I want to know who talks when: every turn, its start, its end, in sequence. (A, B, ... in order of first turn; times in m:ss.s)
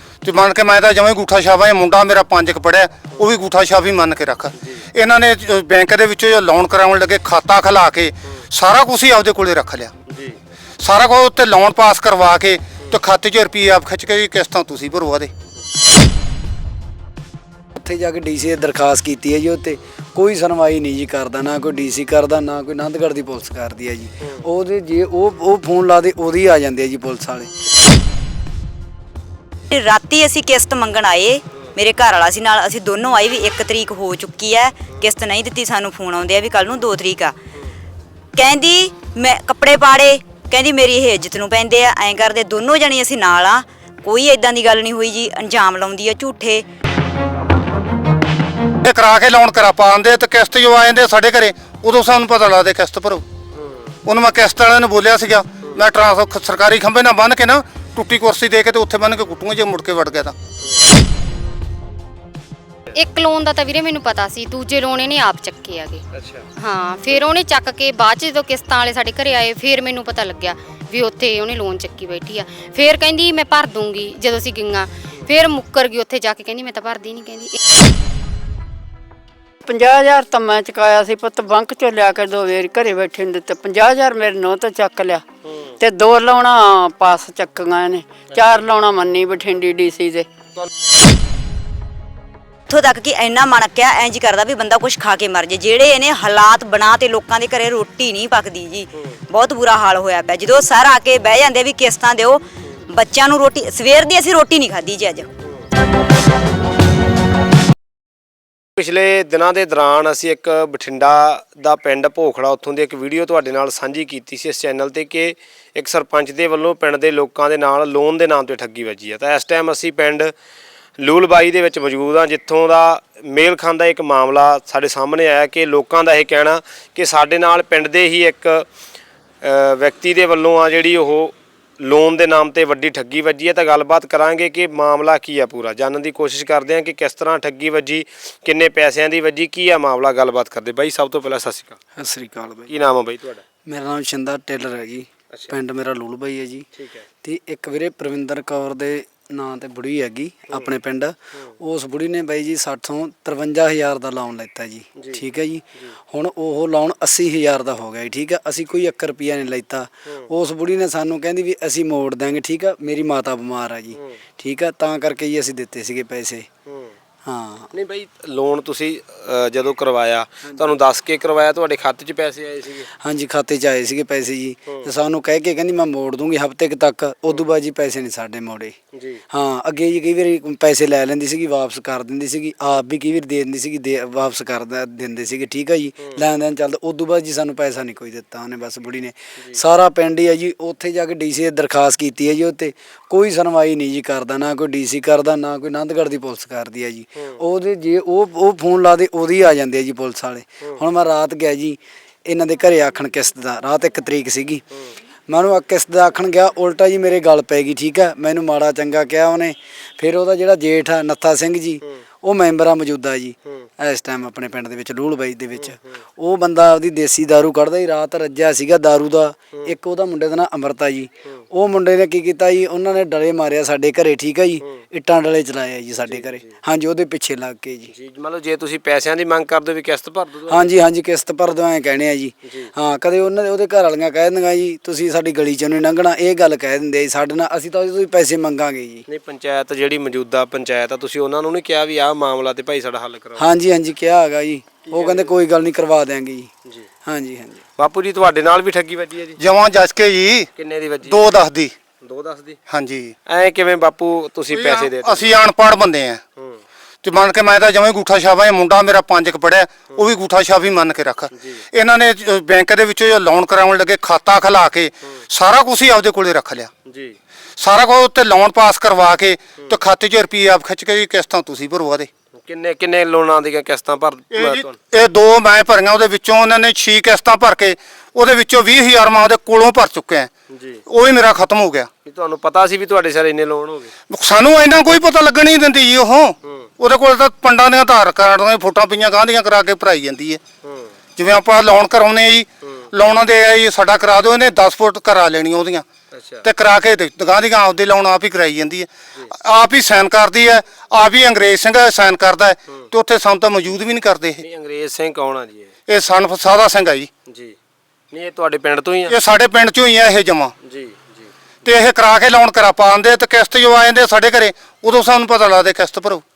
0:00.2-0:09.9 A
0:10.1-0:10.4 B
0:10.8-0:15.3 A
0:17.8-0:27.5 C
0:24.2-0:24.4 B
0:29.7-0:37.4 D
0:38.4-0:46.6 D
0:48.8-0:53.2 A
0:54.0-1:00.4 A
1:02.9-1:06.0 E
1:06.1-1:06.4 B
1:06.6-1:17.6 E
1:19.6-1:25.2 F
1:25.4-1:25.7 B
1:25.8-1:30.3 F
1:28.3-1:28.6 B
1:32.7-1:45.3 D
1:48.8-2:00.3 B
2:01.0-2:08.6 B
2:09.4-2:21.8 B
2:22.0-2:22.8 C
2:22.7-2:23.4 B
2:23.6-2:26.7 C
2:26.8-2:27.0 B
2:27.2-2:46.5 C
2:35.0-2:35.2 B
2:46.6-2:47.0 B
2:47.2-2:47.7 C
2:47.7-2:52.9 B
2:53.0-2:58.7 C
2:58.9-2:59.2 B
2:59.3-3:24.6 C
3:09.4-3:09.6 B
3:25.3-3:47.9 C
3:35.5-3:36.0 B
3:46.0-3:46.5 B
3:47.9-3:50.7 B
3:50.5-3:59.0 C
3:52.4-3:52.7 B
3:59.1-4:03.5 B
4:03.4-4:06.5 C
4:04.9-4:05.3 B
4:07.0-4:07.6 C
4:07.8-4:09.4 B
4:09.4-4:10.5 A
4:10.6-4:11.2 B
4:11.0-4:11.7 A
4:12.0-4:12.6 B
4:12.7-4:13.1 A
4:13.3-4:15.4 B
4:14.5-4:16.2 A
4:17.0-4:26.7 A
4:21.3-4:21.6 B
4:26.9-4:27.2 B
4:27.6-4:32.1 A
4:32.4-4:34.8 B
4:34.3-4:40.3 A
4:40.5-4:40.8 B
4:40.9-4:41.9 A
4:42.0-4:43.9 B
4:44.1-4:50.4 A
4:50.6-4:50.9 B
4:51.2-4:55.8 A
4:56.1-4:56.5 B
4:56.4-5:04.4 A
5:04.4-5:05.7 B
5:05.9-5:07.1 A
5:07.3-5:07.5 B
5:08.1-5:09.2 B
5:09.1-5:10.5 A
5:10.6-5:11.3 B
5:11.6-5:16.2 A